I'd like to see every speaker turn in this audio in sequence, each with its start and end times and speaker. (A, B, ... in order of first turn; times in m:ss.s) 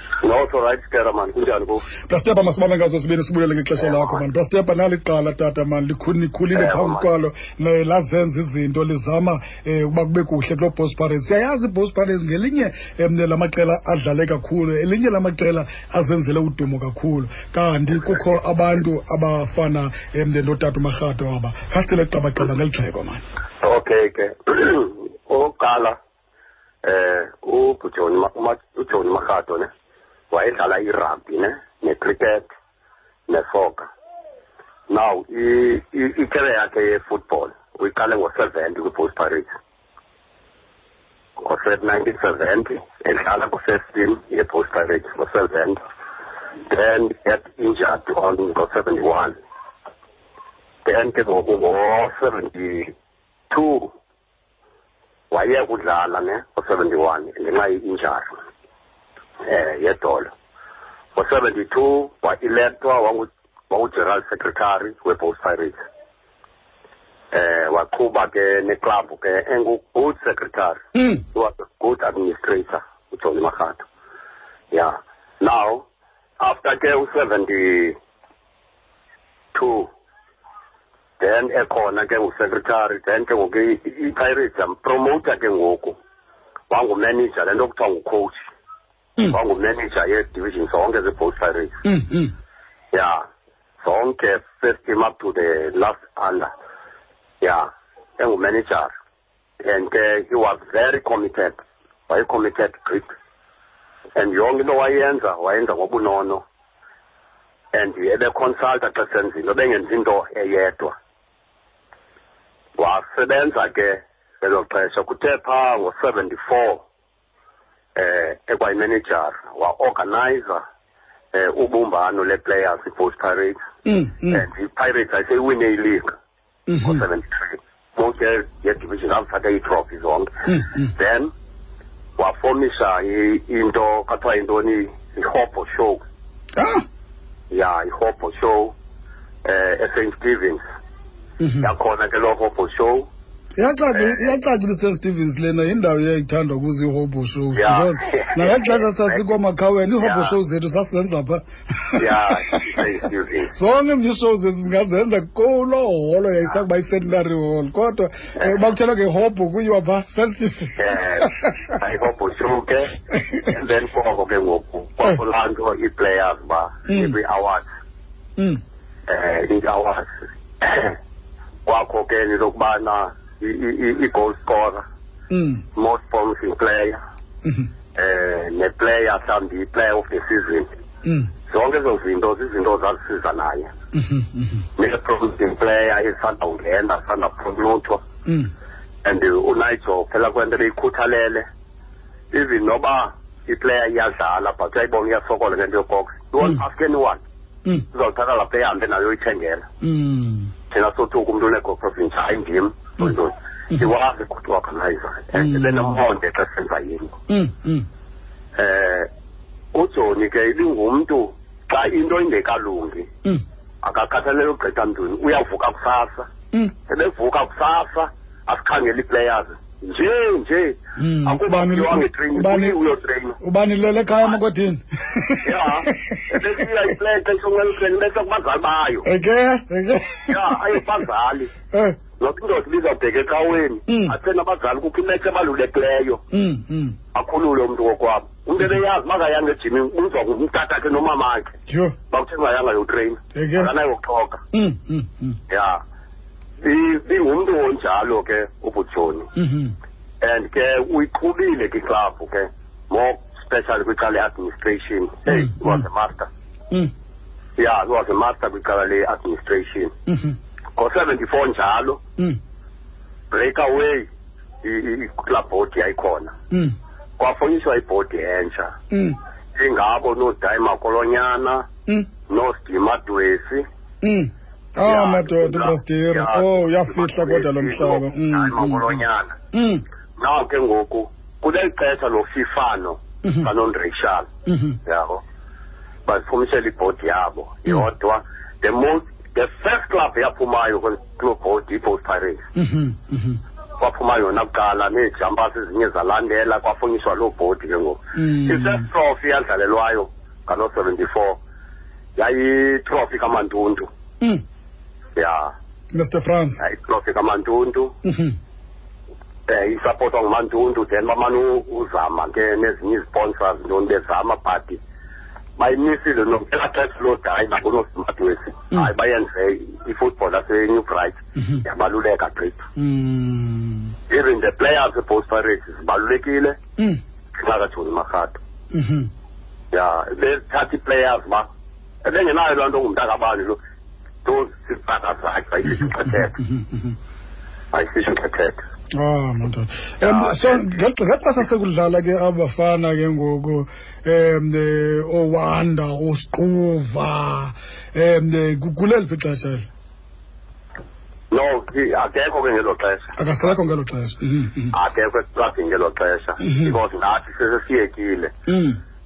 0:00.2-0:01.9 A
0:02.0-0:23.2 B
0:03.8-0:04.2 A
0:06.5-0:07.0 A
0:23.6-0:26.0 A
0:26.8-0:29.7 A
0:30.3-0:32.5 A
0:33.3-0:33.9 A
0:34.9-0:39.5 A
0:41.4-0:45.8 A
0:46.7-0:49.3 A
0:50.8-0:52.9 A
0:53.5-0:53.9 A
0:55.3-0:58.4 A
0:59.4-1:00.3 A
1:01.1-1:05.8 A
1:07.3-1:10.8 A
1:11.0-1:11.2 B
1:11.3-1:13.8 A
1:14.7-1:15.8 A
1:16.4-1:18.0 A
1:19.5-1:19.9 A
1:21.2-1:26.0 A
1:26.7-1:28.5 A
1:29.2-1:31.8 A
1:31.8-1:32.3 B
1:32.9-1:33.2 A
1:33.8-1:36.5 A
1:37.4-1:38.9 A
1:39.6-1:43.1 A
1:44.2-1:46.4 A
1:47.7-1:51.0 A
1:52.8-1:56.8 A
1:58.0-2:00.6 A
2:01.3-2:03.6 A
2:03.8-2:04.4 B
2:04.2-2:06.1 A
2:06.7-2:07.0 B
2:06.8-2:10.3 A
2:10.5-2:10.9 B
2:10.9-2:11.3 A
2:12.2-2:16.0 A
2:16.6-2:16.8 B
2:17.5-2:18.7 A
2:19.4-2:20.6 A
2:21.4-2:21.7 B
2:21.6-2:23.1 A
2:23.6-2:32.8 B
2:23.9-2:24.4 A
2:27.5-2:29.2 A
2:30.0-2:30.4 A
2:32.0-2:33.5 A
2:33.5-2:41.5 B
2:40.8-2:47.6 A
2:43.1-2:43.5 B
2:46.9-2:47.2 B
2:49.1-2:51.0 A
2:51.6-2:54.8 A
2:55.3-2:55.6 B
2:55.8-2:57.0 A
2:57.4-2:57.7 B
2:57.9-3:00.7 A
3:01.0-3:01.3 B
3:01.5-3:03.7 A
3:03.9-3:04.6 B
3:04.8-3:08.0 A
3:09.0-3:11.4 A
3:12.3-3:17.2 A
3:17.9-3:19.7 A
3:19.8-3:20.5 B
3:20.7-3:27.2 A
3:25.4-3:26.0 B
3:27.3-3:27.8 B
3:28.6-3:29.1 A
3:29.7-3:33.1 A
3:33.8-3:36.3 A
3:36.9-3:43.4 A
3:41.0-3:42.8 B
3:43.4-3:46.3 B
3:45.4-3:49.1 A
3:49.0-3:50.8 B
3:50.3-3:51.5 A
3:51.7-3:52.0 B
3:52.2-3:56.2 A
3:53.9-3:54.1 B
3:56.3-3:57.0 B
3:57.1-4:01.5 A
4:01.7-4:02.0 B
4:02.1-4:04.4 A
4:03.3-4:03.7 B
4:04.5-4:05.4 B
4:05.5-4:05.8 A
4:06.6-4:09.3 A
4:09.4-4:09.7 B
4:10.2-4:16.3 A
4:15.3-4:15.8 B
4:17.6-4:19.9 A
4:20.1-4:20.4 B
4:20.8-4:22.0 A
4:23.3-4:24.1 A
4:24.6-4:26.3 A
4:27.2-4:28.8 A
4:28.9-4:29.2 B
4:29.5-4:31.7 A
4:32.3-4:33.6 A
4:34.0-4:39.0 B
4:34.8-4:39.4 A
4:39.5-4:39.8 B
4:40.2-4:44.3 A
4:43.2-4:43.5 B
4:44.4-4:44.8 B
4:44.8-4:45.2 A
4:46.0-4:52.5 A
4:52.6-4:53.4 B
4:53.8-5:01.4 A
4:58.1-4:58.9 B
5:02.2-5:03.9 A
5:05.2-5:05.5 A
5:05.9-5:06.6 B
5:06.6-5:08.0 A
5:08.0-5:08.3 B
5:09.5-5:14.8 A
5:15.6-5:22.6 A
5:21.4-5:21.6 B
5:22.8-5:23.9 B
5:24.1-5:26.6 A
5:27.4-5:28.4 A
5:28.7-5:29.1 B
5:29.7-5:31.5 A
5:32.0-5:33.6 A
5:34.2-5:36.4 A
5:35.7-5:36.9 B
5:37.7-5:38.6 A
5:38.9-5:49.7 B
5:40.0-5:40.7 A
5:51.3-5:53.5 A
5:53.2-5:54.8 B
5:54.7-5:58.3 A
5:56.4-5:56.8 B
5:58.5-5:58.8 B